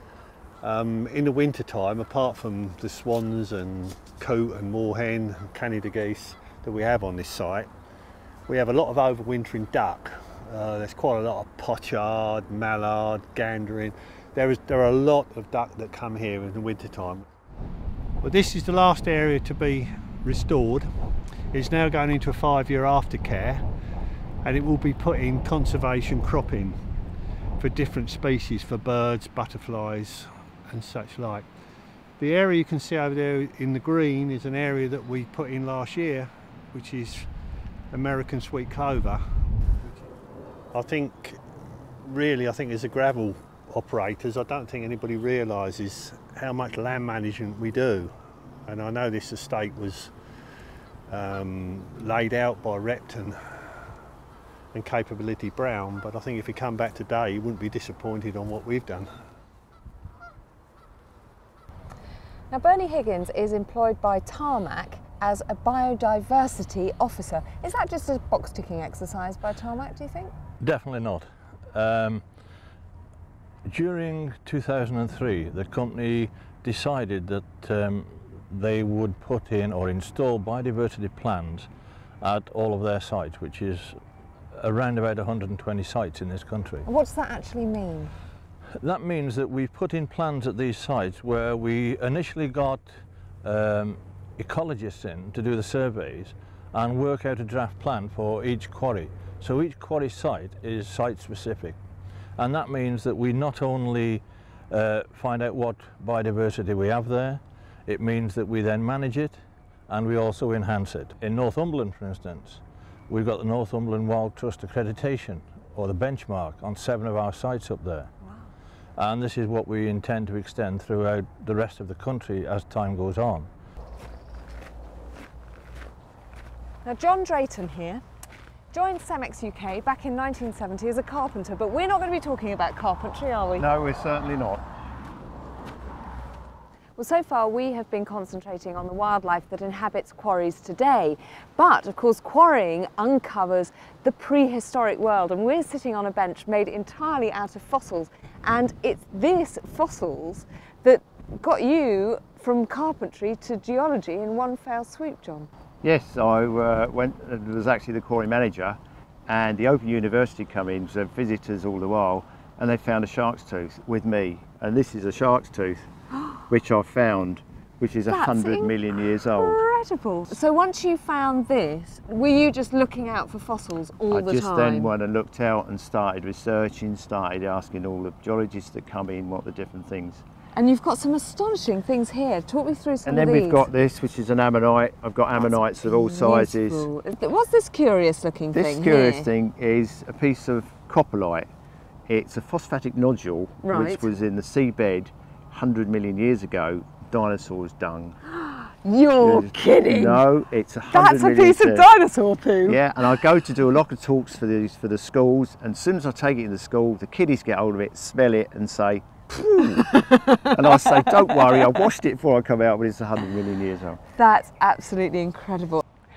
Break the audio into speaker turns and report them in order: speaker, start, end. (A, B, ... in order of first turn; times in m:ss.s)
0:00.6-0:07.7 A
0:08.5-0:17.2 A
0:18.2-0:20.9 A
0:21.5-0:23.6 A
0:24.4-0:26.8 A
0:27.6-0:31.5 A
0:32.2-0:37.3 A
0:37.9-0:39.2 A
0:39.8-0:40.1 A
0:40.7-0:41.4 A
0:42.0-0:48.1 A
0:48.7-0:50.1 A
0:51.1-0:53.4 A
0:54.7-0:59.1 A
1:02.5-1:10.3 B
1:10.6-1:12.2 C
1:13.7-1:21.7 C
1:22.2-1:24.0 C
1:24.6-1:26.9 C
1:26.9-1:28.1 B
1:28.8-1:32.8 C
1:33.4-1:41.8 C
1:42.4-1:49.4 C
1:49.9-1:58.1 C
1:59.0-2:03.5 C
2:06.8-2:08.0 B
2:08.7-2:13.7 B
2:13.6-2:14.6 D
2:17.0-2:35.5 B
2:35.8-2:45.9 D
2:46.5-2:49.6 D
2:48.1-2:54.9 B
2:54.1-3:00.2 D
3:00.6-3:03.7 B
3:03.0-3:06.9 D
3:05.4-3:09.3 B
3:08.5-3:11.5 D
3:12.1-3:18.2 D
3:13.6-3:14.1 B
3:18.3-3:20.3 B
3:19.2-3:21.9 D
3:20.9-3:22.9 B
3:22.6-3:29.1 D
3:29.4-3:31.8 B
3:30.5-3:34.0 D
3:34.2-3:35.8 B